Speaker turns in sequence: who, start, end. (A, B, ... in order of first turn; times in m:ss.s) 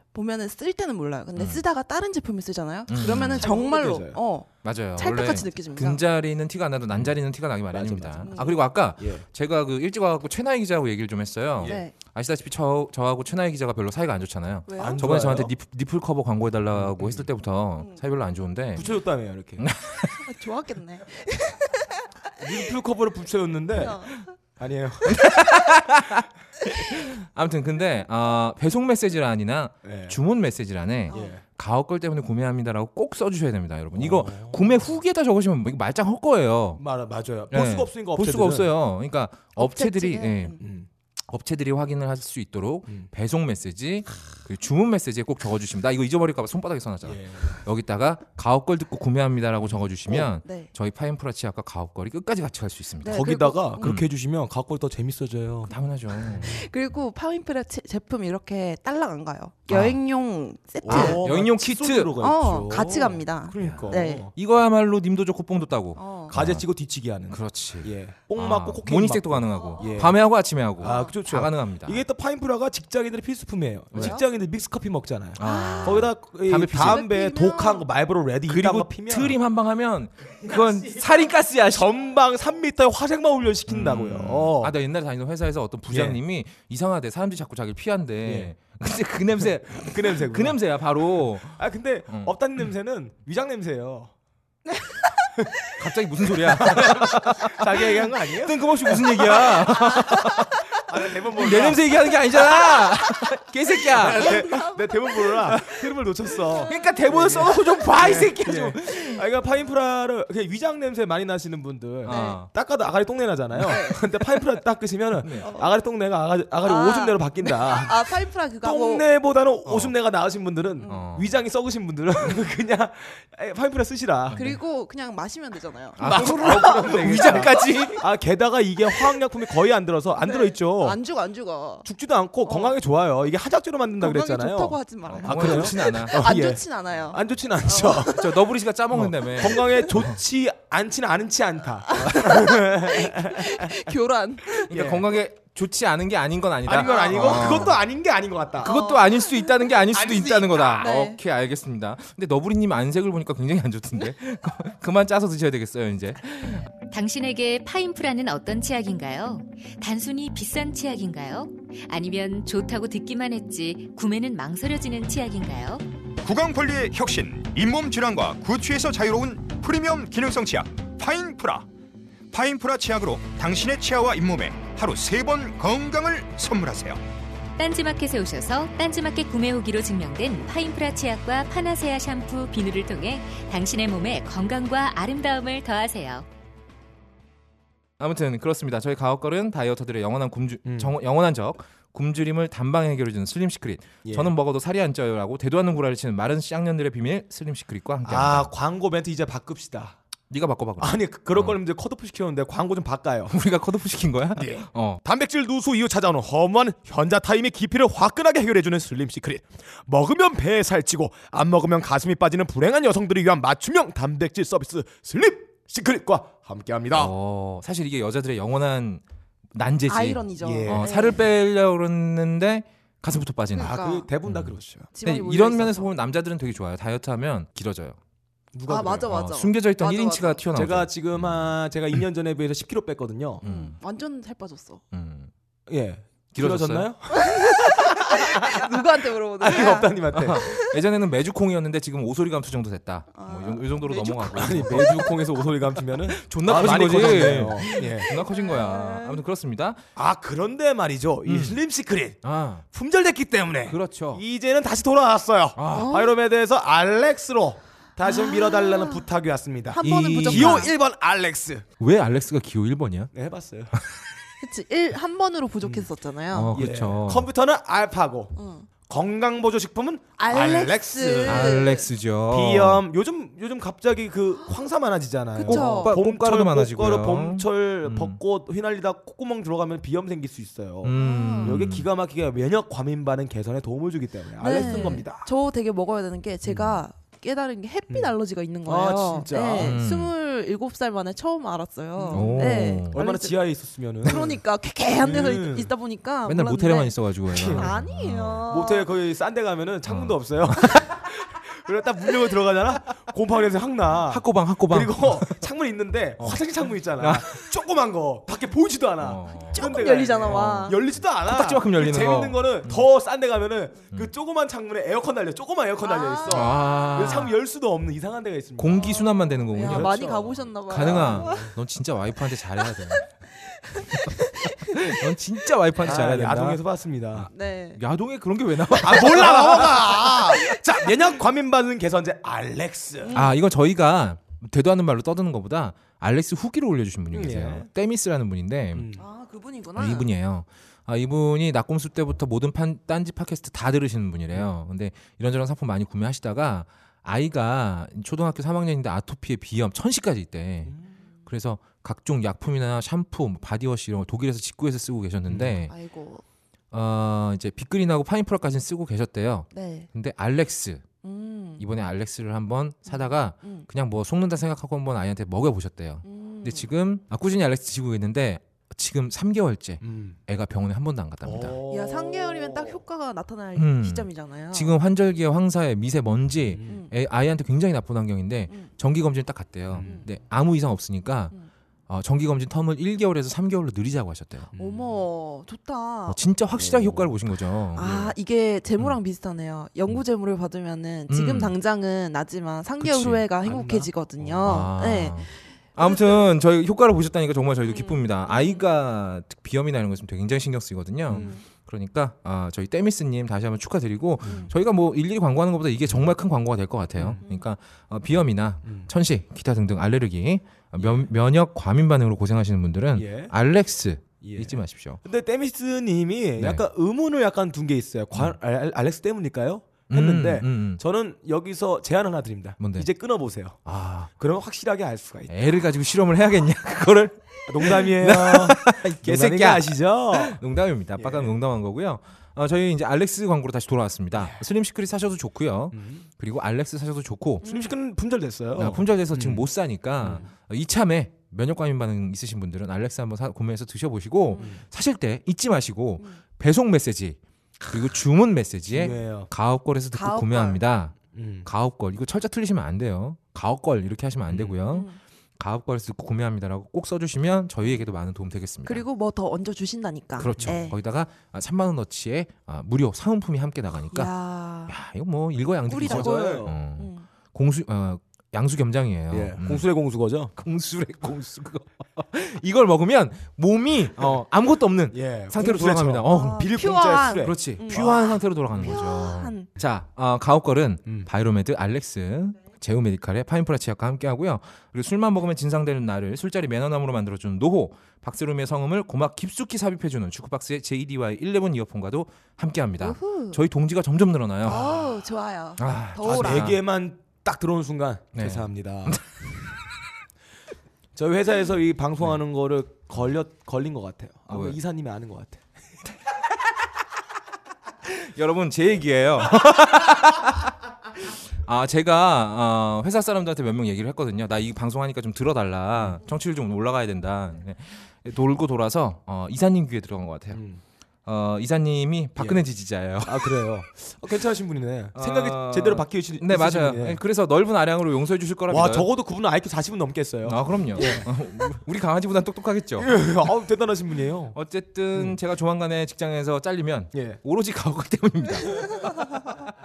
0:00.1-0:06.0 A
0:01.4-0:01.6 B
0:02.9-0:03.5 B
0:03.0-0:04.2 C
0:04.6-0:18.9 B
0:07.7-0:09.2 C
0:08.2-0:08.6 A
0:11.6-0:11.8 C
0:11.6-0:11.9 A
0:14.7-0:15.0 A
0:14.8-0:15.5 C
0:16.7-0:17.2 C
0:18.8-0:19.7 C
0:19.6-0:20.2 B
0:20.2-0:22.1 A
0:22.4-0:25.4 C
0:23.8-0:24.3 A
0:25.1-0:36.8 B
0:29.8-0:30.2 C
0:31.1-0:31.4 A
0:31.1-0:31.4 C
0:33.9-0:34.7 C
0:36.8-0:38.7 C
0:37.5-0:40.6 B
0:39.6-0:40.6 A
0:40.6-0:40.9 C
0:41.3-0:53.2 B
0:47.0-0:47.6 C
0:50.4-0:50.7 A
0:53.0-0:53.9 A
0:53.1-0:55.7 C
0:53.8-0:54.1 B
0:55.6-0:56.6 B
0:56.3-0:56.6 C
0:56.4-1:01.2 A
0:59.7-1:00.0 B
1:00.8-1:04.3 C
1:00.8-1:02.1 B
1:02.2-1:04.3 A
1:03.6-1:06.6 B
1:06.0-1:06.3 A
1:06.3-1:10.2 C
1:07.3-1:12.0 B
1:09.5-1:10.1 A
1:10.8-1:19.4 C
1:10.8-1:11.1 A
1:13.9-1:14.2 A
1:15.4-1:17.0 B
1:15.4-1:16.1 A
1:16.7-1:17.9 A
1:18.5-1:21.9 B
1:20.5-1:21.0 C
1:21.6-1:24.7 C
1:23.7-1:32.4 B
1:25.9-1:26.2 C
1:28.2-1:28.5 C
1:29.7-1:30.7 C
1:31.6-1:34.1 C
1:35.7-1:40.7 B
1:36.4-1:40.1 C
1:40.7-1:42.8 C
1:41.3-1:44.6 B
1:43.8-1:58.1 C
1:44.2-1:44.8 A
1:46.7-1:49.2 B
1:52.0-1:52.5 B
1:52.1-1:52.4 A
1:53.6-1:54.0 A
1:55.2-1:55.5 B
1:55.4-1:55.7 A
1:56.6-1:59.0 A
1:58.6-2:04.4 C
1:59.6-1:59.9 B
2:00.8-2:01.1 A
2:00.8-2:01.4 B
2:04.3-2:04.6 B
2:04.3-2:06.1 A
2:06.0-2:08.1 B
2:06.0-2:11.0 C
2:10.2-2:11.9 A
2:11.8-2:18.4 C
2:12.4-2:12.8 A
2:14.0-2:18.4 A
2:15.1-2:16.2 B
2:18.1-2:20.2 B
2:18.9-2:23.7 C
2:21.9-2:24.7 A
2:24.7-2:25.1 C
2:24.7-2:27.8 B
2:26.6-2:28.7 C
2:26.7-2:27.7 A
2:28.6-2:29.5 A
2:28.6-2:36.7 B
2:29.9-2:30.9 C
2:30.8-2:31.2 A
2:36.9-2:45.8 D
2:46.2-2:51.7 E
2:52.3-2:57.0 E
2:57.6-3:06.2 D
3:08.0-3:18.5 B
3:10.6-3:10.9 C
3:14.0-3:14.3 C
3:18.0-3:20.0 C
3:20.3-3:21.6 B
3:20.8-3:23.4 C
3:23.3-3:25.0 B
3:24.3-3:37.1 C
3:36.9-3:39.0 B
3:39.5-3:43.7 B
3:39.9-3:41.2 A
3:40.4-3:40.9 C
3:43.5-3:44.1 A
3:43.5-3:44.9 C
3:44.3-3:48.0 B
3:44.9-3:45.9 A
3:48.5-3:49.2 C
3:48.7-3:50.4 A
3:49.1-3:51.5 B
3:50.5-3:53.4 C
3:53.4-3:53.8 B
3:53.4-3:54.8 A
3:54.9-3:55.3 B
3:55.7-3:58.8 C
3:56.3-3:56.9 B
3:57.1-4:00.7 A
3:59.4-4:00.4 C
4:00.1-4:05.2 B
4:03.1-4:04.6 A
4:04.3-4:08.1 C
4:06.1-4:09.8 B
4:08.0-4:09.2 A
4:10.0-4:21.6 C
4:11.2-4:11.6 B
4:12.2-4:12.6 B
4:13.7-4:14.2 B
4:15.6-4:16.0 B
4:15.7-4:16.2 A
4:18.0-4:19.1 A
4:19.7-4:20.7 A
4:19.8-4:20.7 B
4:21.8-4:23.1 B
4:23.1-4:23.8 C
4:24.4-4:26.6 A
4:26.3-4:27.3 B
4:26.5-4:31.7 C
4:28.4-4:28.7 A
4:30.2-4:31.9 A
4:31.2-4:32.8 B
4:32.3-4:45.3 C
4:35.4-4:36.0 A
4:35.4-4:38.2 B
4:40.8-4:41.9 B
4:41.0-4:41.6 A
4:44.4-4:58.9 A
4:44.6-4:45.0 B
4:46.5-4:46.8 B
4:47.9-4:48.1 C
4:48.6-4:49.8 C
4:49.6-4:50.1 B
4:52.0-4:54.4 C
4:52.1-4:53.0 B
4:55.0-4:55.7 C
4:56.3-4:58.4 B
4:57.3-4:57.7 C
4:58.5-5:21.5 C
4:59.9-5:01.0 B
5:04.1-5:05.4 B
5:07.0-5:07.4 B
5:09.0-5:12.9 B
5:09.6-5:10.8 A
5:15.8-5:17.2 A
5:16.3-5:17.3 B
5:18.6-5:23.0 B
5:19.5-5:21.5 A
5:23.5-5:24.9 A
5:23.9-5:26.6 B
5:25.8-5:27.3 C
5:27.1-5:29.9 B
5:27.3-5:27.8 A
5:28.8-5:33.2 C
5:28.9-5:30.8 A
5:33.0-5:33.4 A
5:33.1-5:38.8 B
5:37.1-5:37.7 C
5:38.7-5:39.0 C
5:39.0-5:40.1 A
5:39.8-5:50.7 B
5:51.3-5:55.7 B
5:55.3-5:55.6 C
5:55.7-5:56.2 A
5:56.7-6:00.8 B
5:59.5-5:59.9 A
6:01.0-6:01.6 A
6:01.6-6:11.6 B
6:02.9-6:03.7 A
6:06.0-6:06.7 A
6:09.8-6:10.2 C
6:11.2-6:12.8 C
6:11.7-6:14.8 A
6:13.6-6:21.3 B
6:16.5-6:16.8 C
6:16.6-6:16.9 A
6:19.7-6:20.0 C
6:19.8-6:20.0 A
6:21.9-6:24.5 B
6:24.5-6:25.0 C
6:24.6-6:26.2 A
6:26.1-6:28.1 B
6:26.5-6:27.1 C
6:27.8-6:36.2 A
6:31.1-6:31.5 B
6:32.8-6:33.2 B
6:33.4-6:34.7 C
6:34.4-6:55.0 B
6:37.7-6:38.6 A
6:41.1-6:41.4 C
6:41.1-6:41.4 A
6:44.2-6:44.5 C
6:44.2-6:44.5 A
6:47.0-6:47.2 C
6:48.6-6:48.9 C
6:50.8-6:51.1 C
6:52.9-6:53.3 C
6:54.2-7:03.6 C
6:56.4-6:56.7 B
6:59.9-7:00.8 B
7:02.6-7:02.9 B
7:03.6-7:04.1 B
7:04.1-7:05.4 C
7:05.3-7:17.4 B
7:07.5-7:10.4 C
7:11.0-7:11.4 C
7:14.1-7:14.4 C
7:15.7-7:16.0 C
7:17.4-7:17.7 A
7:17.4-7:19.4 C
7:18.6-7:38.8 B
7:20.0-7:20.3 C
7:24.3-7:24.6 A
7:28.7-7:29.3 C
7:29.9-7:30.6 A
7:31.1-7:31.5 C
7:34.3-7:34.6 C
7:34.7-7:35.0 A
7:38.6-7:40.8 A
7:40.2-7:44.1 B
7:40.2-7:40.6 C
7:43.9-7:44.7 A
7:44.7-7:49.6 B
7:45.7-7:47.1 A
7:45.8-7:46.6 C
7:49.1-7:50.3 C
7:50.4-8:14.6 B
7:54.9-7:57.4 C
7:56.1-7:59.5 A
8:12.8-8:13.4 A
8:14.4-8:16.5 A
8:14.5-8:14.8 C
8:15.6-8:16.6 B
8:16.0-8:19.0 C
8:18.1-8:19.1 B
8:20.9-8:25.4 C
8:24.3-8:24.6 B
8:27.8-8:30.5 B
8:31.1-8:40.4 B
8:35.8-8:36.0 C
8:40.3-8:40.6 C
8:41.0-8:43.5 B
8:42.2-8:42.4 C
8:43.0-8:47.0 C
8:44.9-8:48.9 B
8:48.5-8:51.2 C
8:50.2-8:53.0 B
8:52.8-8:54.4 C
8:54.3-8:59.1 B
8:56.9-8:57.2 C